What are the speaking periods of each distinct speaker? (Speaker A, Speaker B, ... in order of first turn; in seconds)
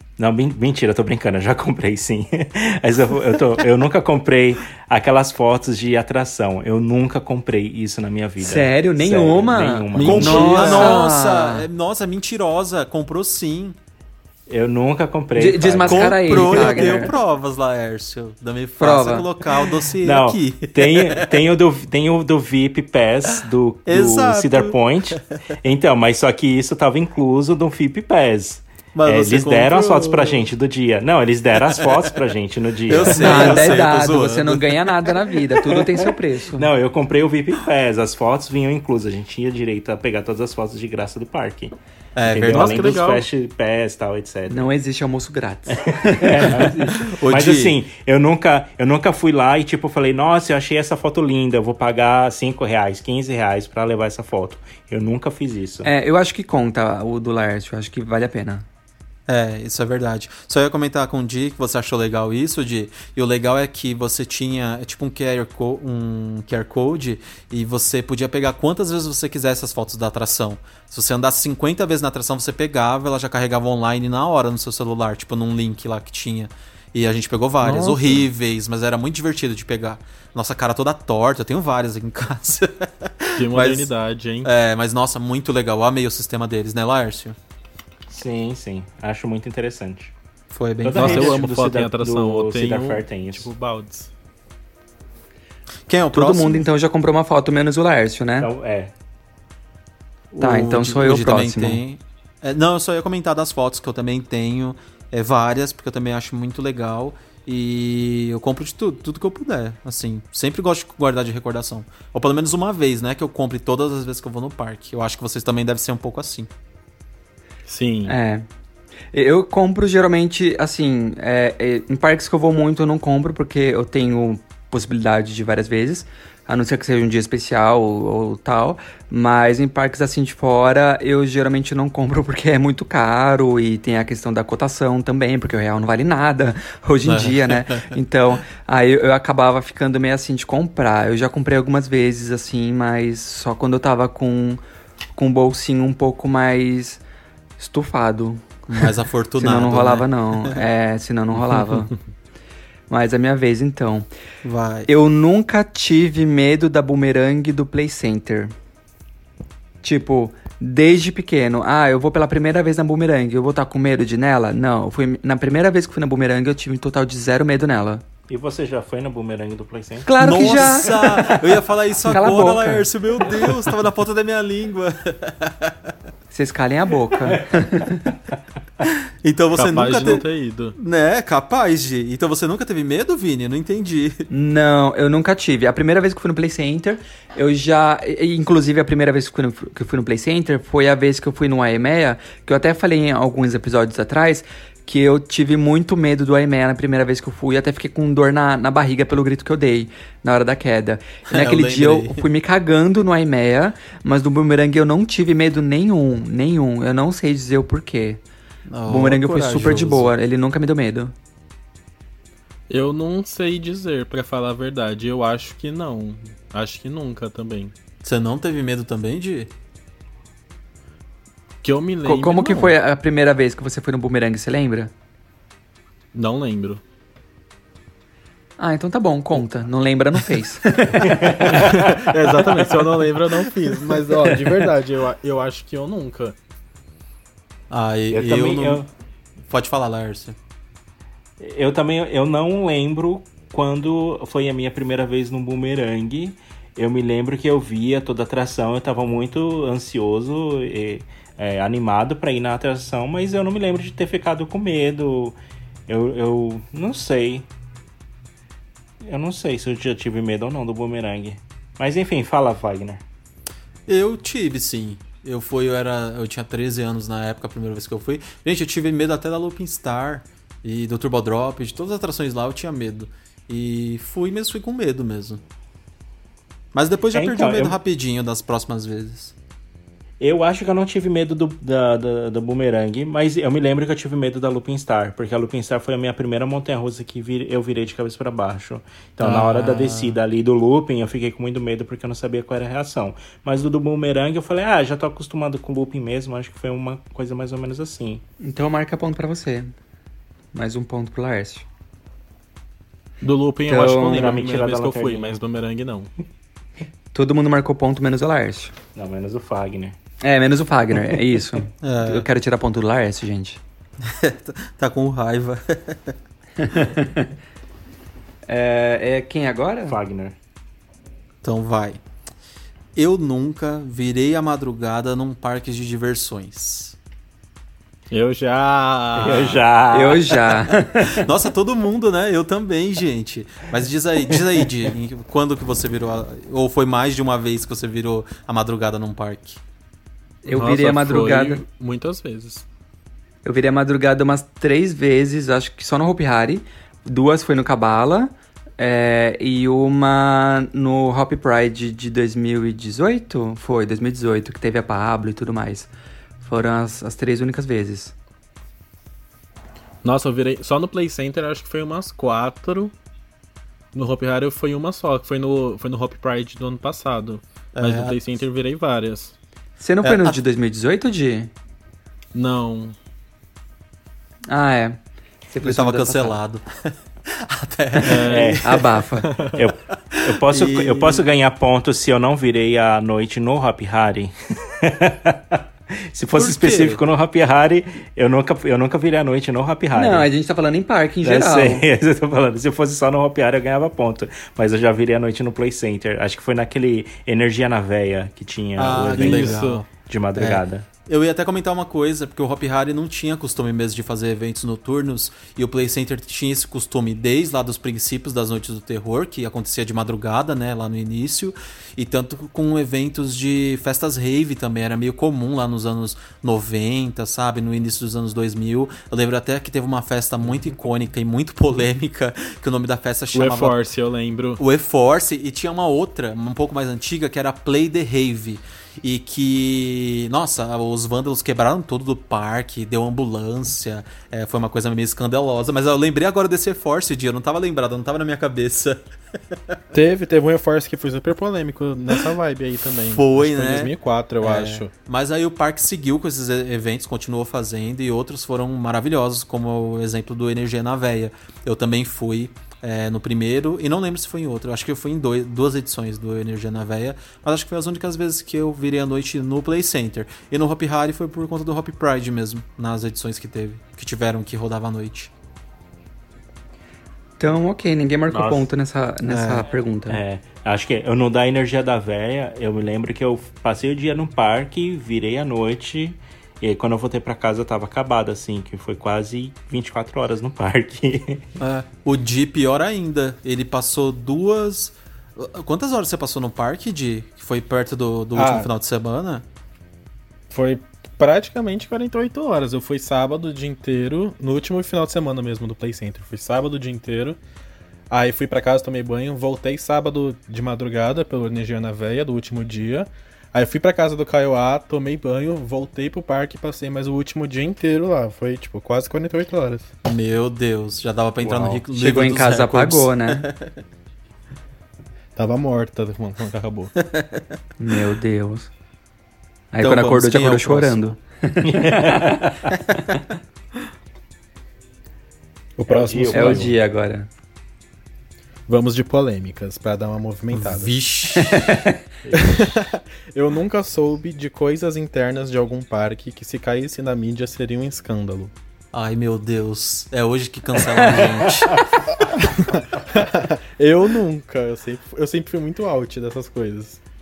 Speaker A: 0.2-11.0, 14.5-17.0, 20.0-33.7, 36.5-41.7, 42.3-44.7, 45.7-55.9, 88.1-90.1, 90.8-93.5, 98.4-98.9, 168.3-171.4, 231.2-232.5, 238.1-238.8, 241.4-255.3, 255.9-257.5, 259.0-263.0, 277.1-277.8, 280.2-298.2, 304.1-305.4, 308.9-310.0, 319.9-320.4, 329.2-330.5, 378.3-378.6, 379.6-390.3, 391.2-400.8, 468.3-468.7, 470.1-481.4, 511.4-511.8, 521.6-522.6, 525.9-526.7
Speaker B: 8.4-11.7, 15.3-17.1, 18.8-19.3, 33.1-36.7, 44.5-46.8, 55.8-58.6, 96.1-98.5, 100.4-101.8, 118.0-118.4, 119.1-144.6, 145.1-147.0, 147.6-148.4, 149.4-151.9, 152.9-154.1, 154.9-158.5, 159.8-168.0, 170.0-171.3, 172.1-172.9, 176.3-178.0, 184.3-208.2, 208.8-211.1, 222.0-224.9, 228.6-231.5, 298.4-299.7, 300.5-301.6, 303.7-304.3, 307.1-308.7, 310.2-313.6, 316.6-317.3, 318.5-319.9, 329.9-331.2, 340.4-341.6, 343.4-355.9, 356.4-358.1, 369.8-371.5, 374.5-376.4, 378.6-379.3, 389.9-391.8, 467.4-470.2, 511.9-513.4, 517.8-518.7, 519.7-522.0, 526.3-527.3, 531.5-531.9, 540.8-541.2
Speaker C: 9.9-13.8, 15.8-21.3, 23.9-25.2, 28.9-30.4, 31.6-32.0, 32.9-34.9, 42.1-43.1, 47.0-47.7, 59.3-83.9, 84.4-87.3, 90.5-91.4, 95.9-96.7, 100.3-116.5, 137.0-137.9, 148.7-150.6, 154.4-154.9, 170.2-175.9, 179.2-184.2, 201.3-202.2, 208.7-210.1, 218.0-219.5, 237.7-238.9, 239.5-240.3, 263.9-275.4, 276.7-279.3, 289.2-290.2, 311.8-312.2, 314.0-316.1, 321.4-322.0, 322.9-326.9, 331.1-339.6, 367.8-368.2, 370.0-370.4, 375.6-378.6, 380.1-381.2, 386.3-387.0, 398.8-423.8, 424.6-439.0, 443.1-465.3, 469.2-469.7, 481.6-489.4, 510.0-513.7, 517.0-517.4, 519.8-521.1, 530.5-531.7, 538.9-541.8
Speaker D: 42.5-43.2, 77.6-78.2, 83.4-84.5, 90.9-94.1, 117.7-118.2, 179.6-180.7, 212.7-217.7, 221.6-222.8, 226.1-226.8, 231.5-236.3, 303.2-306.1, 328.1-329.6, 340.5-342.6, 360.0-362.9, 363.9-369.3, 372.3-372.9, 378.0-378.6, 379.2-379.6, 399.1-399.8, 423.3-424.6, 439.9-444.9, 488.3-488.7, 490.5-497.4, 498.1-509.9, 515.4-516.9, 525.8-526.7, 528.7-530.9, 532.3-538.5, 543.1-547.0